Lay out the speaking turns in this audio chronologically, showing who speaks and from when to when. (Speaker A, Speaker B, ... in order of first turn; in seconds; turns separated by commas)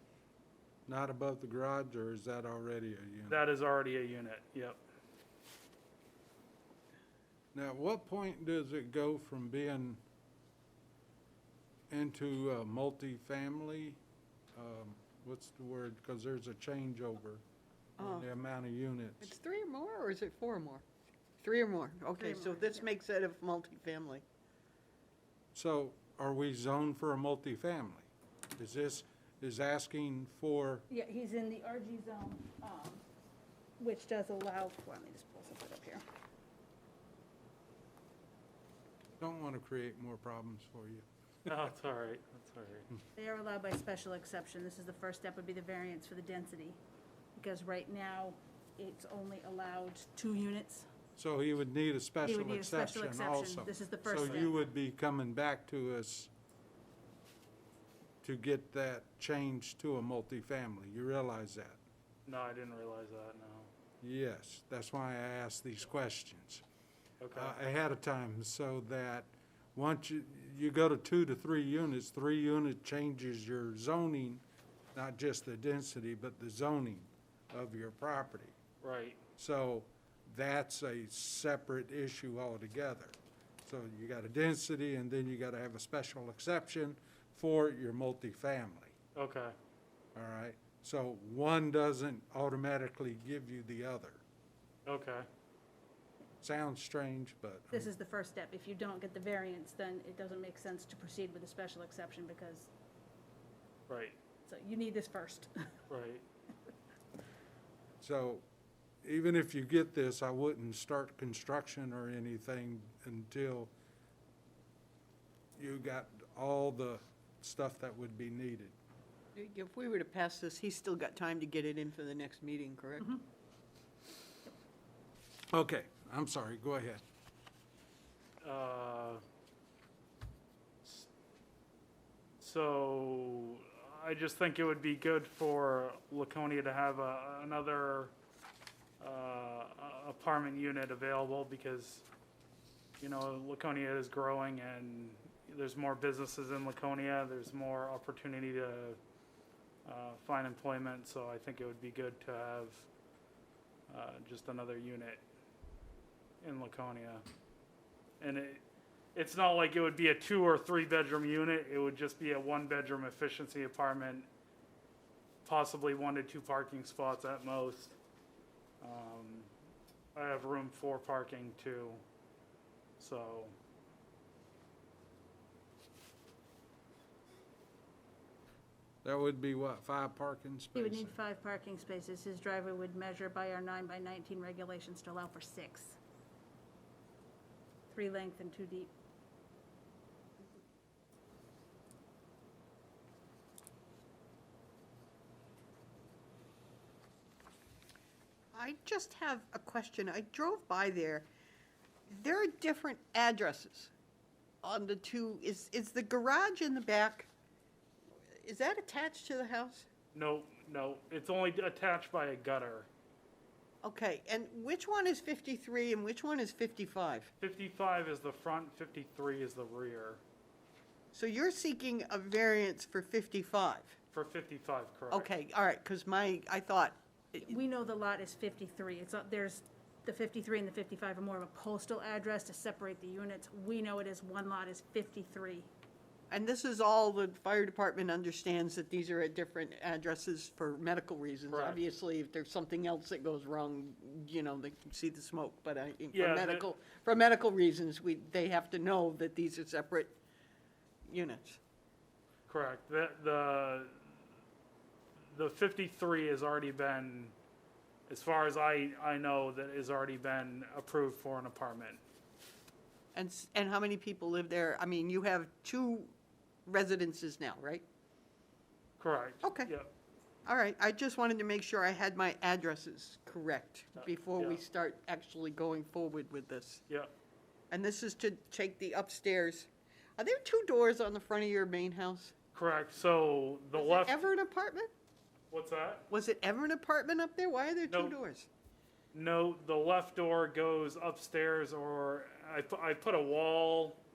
Speaker A: 0.9-3.4, Speaker B: 3.3-4.8, Speaker A: 7.5-10.0, Speaker A: 11.9-14.0, Speaker A: 14.5-17.4, Speaker A: 18.0-19.3, Speaker C: 18.0-18.2, Speaker C: 19.2-20.8, Speaker C: 21.4-24.2, Speaker D: 22.2-22.9, Speaker A: 25.5-30.9, Speaker D: 30.9-33.0, Speaker D: 33.8-36.0, Speaker A: 39.2-41.6, Speaker B: 41.5-42.9, Speaker D: 43.2-46.8, Speaker D: 47.4-50.9, Speaker A: 51.2-56.3, Speaker D: 52.2-54.5, Speaker B: 54.2-54.5, Speaker A: 58.2-61.8, Speaker B: 62.2-63.7, Speaker A: 64.0-66.6, Speaker B: 67.2-67.5, Speaker A: 67.3-74.4, Speaker A: 74.9-78.6, Speaker B: 78.8-79.2, Speaker A: 79.4-88.9, Speaker B: 89.1-89.5, Speaker A: 90.1-94.2, Speaker B: 94.8-95.3, Speaker A: 96.4-97.9, Speaker D: 97.7-102.7, Speaker B: 103.9-104.2, Speaker D: 104.5-105.7, Speaker B: 105.9-106.2, Speaker A: 108.0-108.4, Speaker A: 109.0-113.7, Speaker A: 115.6-118.7, Speaker C: 119.3-123.2, Speaker A: 125.5-127.0, Speaker B: 128.4-129.2, Speaker B: 130.8-131.1, Speaker B: 132.4-138.1, Speaker B: 139.0-142.1, Speaker B: 143.0-149.0, Speaker B: 149.8-152.9, Speaker B: 153.9-155.2, Speaker B: 156.4-157.2, Speaker B: 158.2-158.6, Speaker B: 159.1-164.3, Speaker B: 165.4-167.9, Speaker B: 168.8-169.5, Speaker B: 170.1-172.0, Speaker B: 173.0-173.5, Speaker A: 179.0-181.2, Speaker D: 180.7-186.0, Speaker D: 187.9-188.9, Speaker C: 198.5-201.2, Speaker C: 202.1-203.9, Speaker C: 204.6-207.3, Speaker C: 208.3-209.8, Speaker B: 210.1-212.9, Speaker C: 213.8-217.3, Speaker B: 217.4-220.2, Speaker C: 221.1-223.9, Speaker B: 224.1-225.3, Speaker C: 225.1-227.6, Speaker D: 227.4-235.7, Speaker C: 236.3-250.2, Speaker B: 241.5-241.8, Speaker B: 246.1-246.7, Speaker C: 251.1-251.6, Speaker B: 252.5-254.1, Speaker B: 255.3-257.3, Speaker B: 258.1-262.0, Speaker C: 263.1-266.1, Speaker C: 266.6-267.9, Speaker B: 269.0-269.9, Speaker C: 269.4-269.7, Speaker C: 270.4-276.8, Speaker B: 274.0-274.6, Speaker C: 277.7-282.3, Speaker B: 282.5-284.2, Speaker C: 283.7-284.9, Speaker B: 285.5-286.1, Speaker C: 286.1-288.5, Speaker B: 287.9-288.1, Speaker B: 289.1-294.0